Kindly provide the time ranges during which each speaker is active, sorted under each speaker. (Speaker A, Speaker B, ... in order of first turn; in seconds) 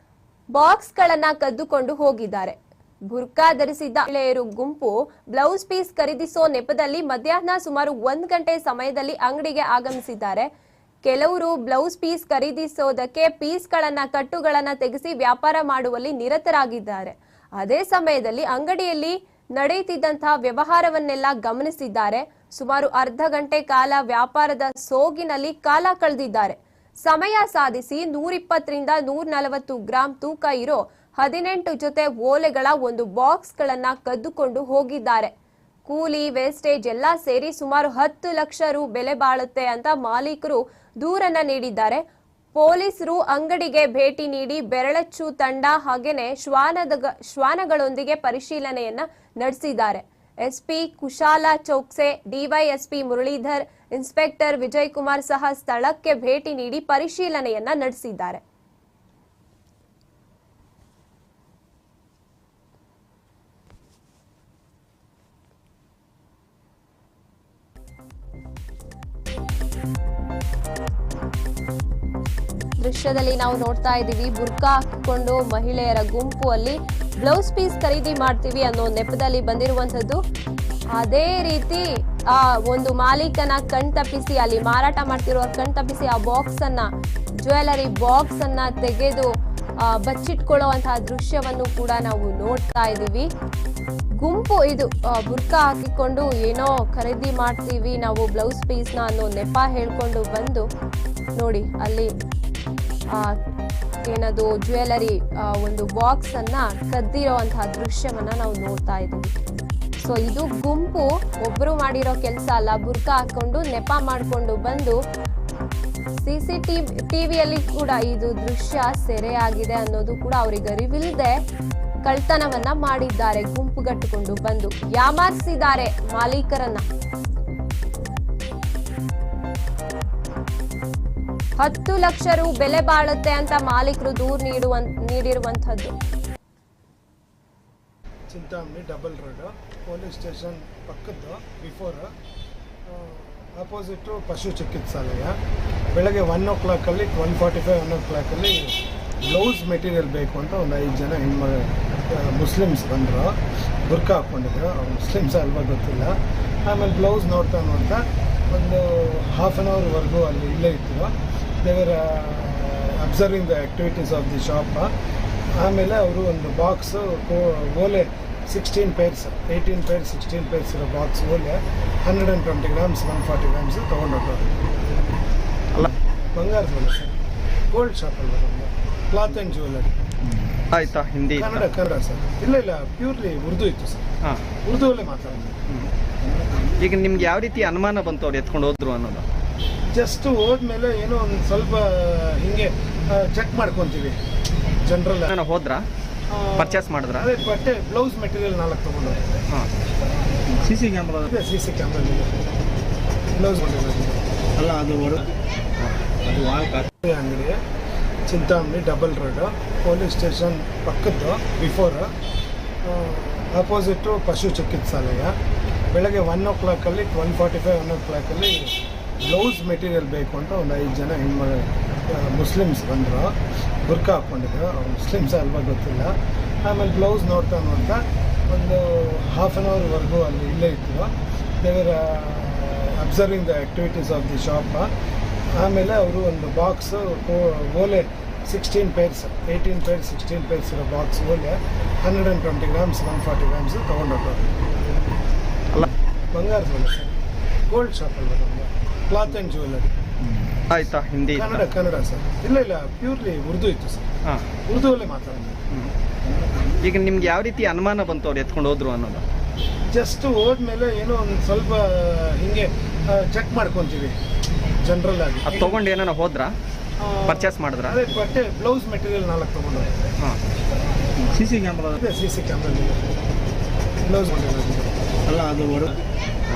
Speaker A: 0.5-2.5, 3.1-10.5, 11.1-35.3, 35.9-42.0, 42.5-58.4, 72.8-80.2, 80.9-86.9, 87.4-89.3, 89.8-93.3, 94.2-100.6, 101.4-102.1, 103.1-103.4, 104.1-109.3, 110.0-115.0, 116.2-121.4, 122.0-126.8, 131.6-135.9
Speaker B: 138.3-142.1, 142.9-145.3, 145.9-164.9, 165.6-174.6, 176.3-177.2, 177.7-179.9, 181.3-184.1, 184.6-185.5, 189.9-194.2, 194.8-195.3, 196.3-199.2, 201.2-202.3, 203.3-204.3, 207.0-207.6, 208.3-212.1, 212.8-215.3, 215.9-234.9, 235.5-244.5, 246.3-247.2, 247.7-249.9, 251.3-254.1, 254.7-255.6, 259.9-264.2, 264.8-265.8, 267.0-269.9, 271.9-273.1, 274.0-275.1
Speaker C: 180.7-181.7, 186.8-189.2, 195.3-195.8, 196.6-197.2, 250.7-251.7, 256.8-259.2, 265.4-266.5, 267.3-268.0
Speaker D: 186.2-186.8, 200.5-201.3, 204.6-205.3, 206.2-206.9, 256.2-256.8, 271.2-271.9, 275.2-276.0